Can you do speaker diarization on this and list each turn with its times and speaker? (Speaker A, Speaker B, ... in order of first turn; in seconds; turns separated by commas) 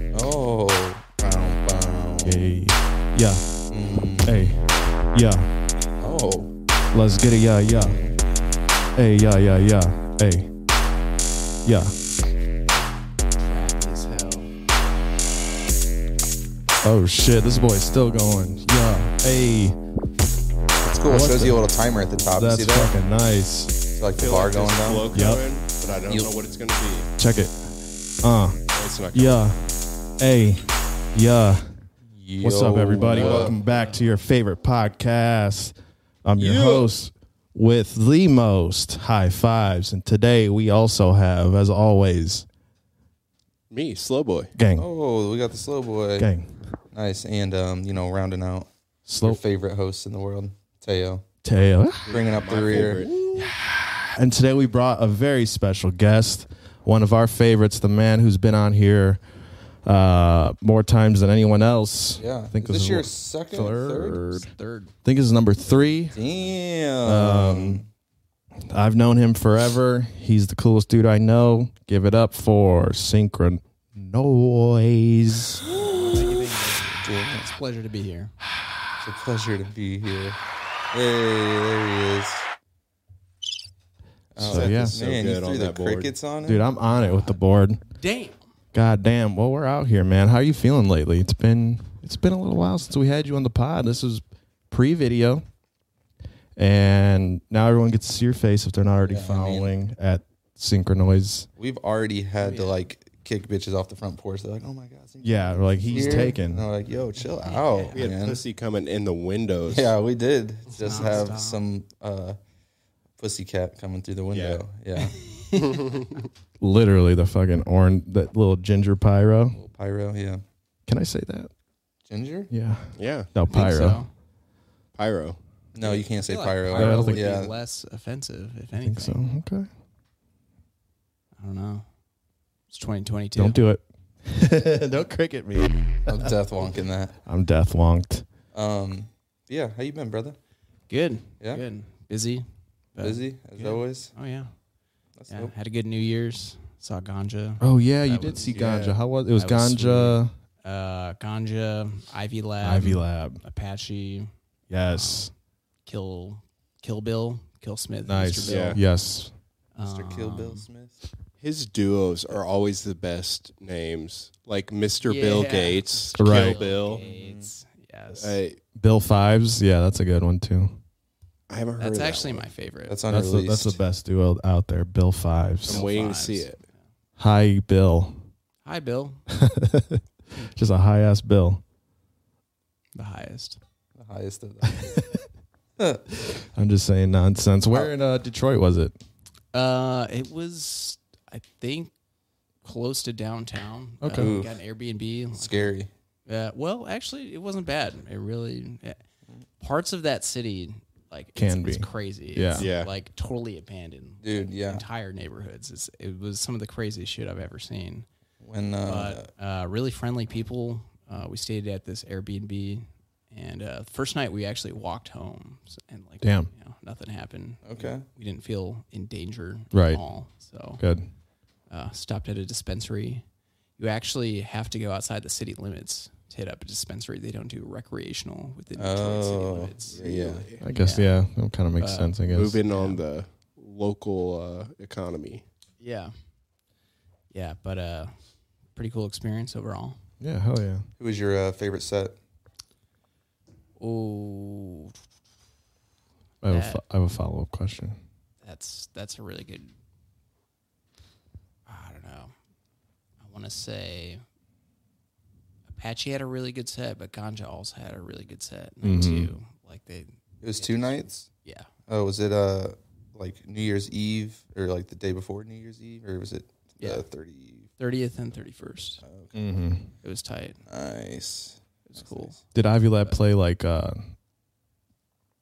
Speaker A: 0.1-2.5, Speaker B: 2.2-3.4, Speaker A: 3.7-4.4, Speaker B: 4.2-5.5, Speaker A: 6.0-6.5, Speaker B: 6.9-8.0, Speaker A: 7.7-8.2, Speaker B: 8.9-10.5, Speaker B: 11.6-11.9, Speaker C: 13.3-14.5, Speaker B: 16.8-19.8, Speaker A: 20.8-22.9, Speaker B: 21.0-21.6, Speaker B: 22.3-23.7, Speaker A: 23.9-25.1, Speaker D: 24.2-27.1, Speaker B: 25.1-25.4, Speaker A: 26.1-26.3, Speaker B: 27.2-28.6, Speaker D: 28.7-29.5, Speaker B: 29.1-29.6, Speaker B: 30.2-31.7, Speaker A: 32.1-33.6, Speaker B: 32.4-42.5, Speaker D: 33.1-33.5, Speaker C: 33.6-34.0, Speaker D: 36.4-36.9, Speaker D: 43.7-44.5, Speaker B: 44.5-44.9, Speaker A: 44.8-46.3, Speaker B: 46.2-46.6, Speaker A: 46.9-48.7, Speaker B: 49.1-49.4, Speaker A: 49.2-51.2, Speaker B: 51.4-52.1, Speaker D: 52.0-53.2, Speaker A: 52.1-53.2, Speaker B: 52.7-59.2, Speaker B: 59.8-64.5, Speaker A: 62.2-64.3, Speaker C: 64.3-64.9, Speaker B: 65.0-66.2, Speaker A: 66.1-67.9, Speaker B: 67.0-67.8, Speaker B: 68.6-75.8, Speaker A: 75.8-77.5, Speaker C: 75.8-78.3, Speaker A: 79.0-80.4, Speaker A: 80.9-82.5, Speaker A: 84.3-86.7, Speaker B: 84.4-85.1, Speaker D: 84.4-86.1, Speaker B: 86.4-87.8, Speaker C: 86.9-88.4, Speaker B: 88.7-95.4, Speaker B: 96.5-101.5, Speaker A: 99.0-99.7, Speaker A: 101.6-108.4, Speaker C: 102.4-102.8, Speaker B: 105.2-106.7, Speaker C: 105.9-106.3, Speaker C: 107.2-108.1, Speaker D: 107.9-109.9, Speaker A: 109.7-112.4, Speaker C: 110.8-111.6, Speaker A: 113.2-115.3, Speaker D: 114.3-114.6, Speaker C: 115.1-116.0, Speaker D: 115.5-116.2, Speaker B: 116.6-119.6, Speaker A: 119.7-120.4, Speaker B: 120.9-121.5, Speaker A: 122.1-122.5, Speaker B: 122.5-124.0, Speaker D: 123.0-123.3, Speaker C: 123.5-124.1, Speaker A: 123.5-123.8, Speaker D: 125.0-125.4, Speaker A: 125.7-127.6, Speaker C: 125.8-129.3, Speaker B: 126.7-127.3, Speaker B: 128.8-129.7, Speaker C: 131.4-131.9, Speaker C: 132.7-133.6, Speaker B: 133.3-136.7, Speaker A: 136.1-137.2, Speaker B: 137.2-138.2, Speaker A: 138.5-140.4, Speaker C: 140.9-144.5, Speaker A: 143.0-144.1, Speaker A: 145.2-145.5, Speaker C: 145.3-154.3, Speaker B: 147.6-150.3, Speaker B: 152.6-153.4, Speaker B: 154.7-155.3, Speaker C: 154.8-155.3, Speaker C: 155.8-158.8, Speaker B: 158.1-159.3, Speaker D: 158.4-158.8, Speaker C: 159.7-160.6, Speaker A: 159.8-161.0, Speaker D: 161.4-167.0, Speaker C: 165.0-168.4, Speaker B: 166.2-166.6, Speaker A: 166.8-167.5, Speaker D: 168.2-168.6, Speaker B: 168.8-170.8, Speaker D: 171.5-172.5, Speaker C: 171.8-173.0, Speaker A: 172.9-173.8, Speaker B: 173.1-175.8, Speaker D: 175.7-176.6, Speaker C: 175.7-176.7, Speaker B: 177.2-178.2, Speaker C: 178.6-179.2, Speaker B: 179.3-181.6, Speaker C: 182.9-183.6, Speaker A: 184.0-185.0, Speaker B: 184.8-185.2, Speaker A: 185.8-186.2, Speaker B: 186.2-189.0, Speaker C: 189.5-191.9, Speaker C: 192.6-199.0, Speaker B: 194.0-194.3, Speaker A: 194.2-194.6, Speaker A: 195.3-195.9, Speaker C: 199.6-208.1, Speaker B: 201.3-202.7, Speaker D: 202.6-202.9, Speaker A: 204.2-204.8, Speaker A: 208.4-209.3, Speaker C: 208.8-220.8, Speaker B: 216.2-216.5, Speaker A: 217.6-218.0, Speaker B: 219.7-220.0, Speaker B: 220.8-221.1, Speaker C: 221.7-223.2, Speaker C: 223.8-231.1, Speaker A: 228.8-230.4, Speaker D: 229.9-230.5, Speaker B: 230.6-232.6, Speaker C: 231.8-233.0, Speaker D: 232.3-235.4, Speaker C: 235.8-236.1, Speaker C: 237.3-238.1, Speaker C: 238.7-240.0, Speaker B: 240.2-240.9, Speaker A: 241.0-242.2, Speaker C: 243.8-244.9, Speaker B: 246.4-248.0, Speaker C: 246.4-246.8, Speaker C: 248.4-249.7, Speaker C: 251.7-252.3, Speaker C: 253.2-254.2, Speaker C: 255.7-261.7, Speaker B: 258.8-259.3, Speaker A: 260.4-261.3, Speaker A: 261.9-267.7, Speaker C: 266.8-267.0, Speaker C: 267.8-269.0, Speaker A: 269.0-269.4, Speaker B: 269.3-269.9, Speaker C: 270.0-270.6, Speaker A: 270.7-272.4, Speaker C: 271.9-272.4, Speaker B: 272.5-274.1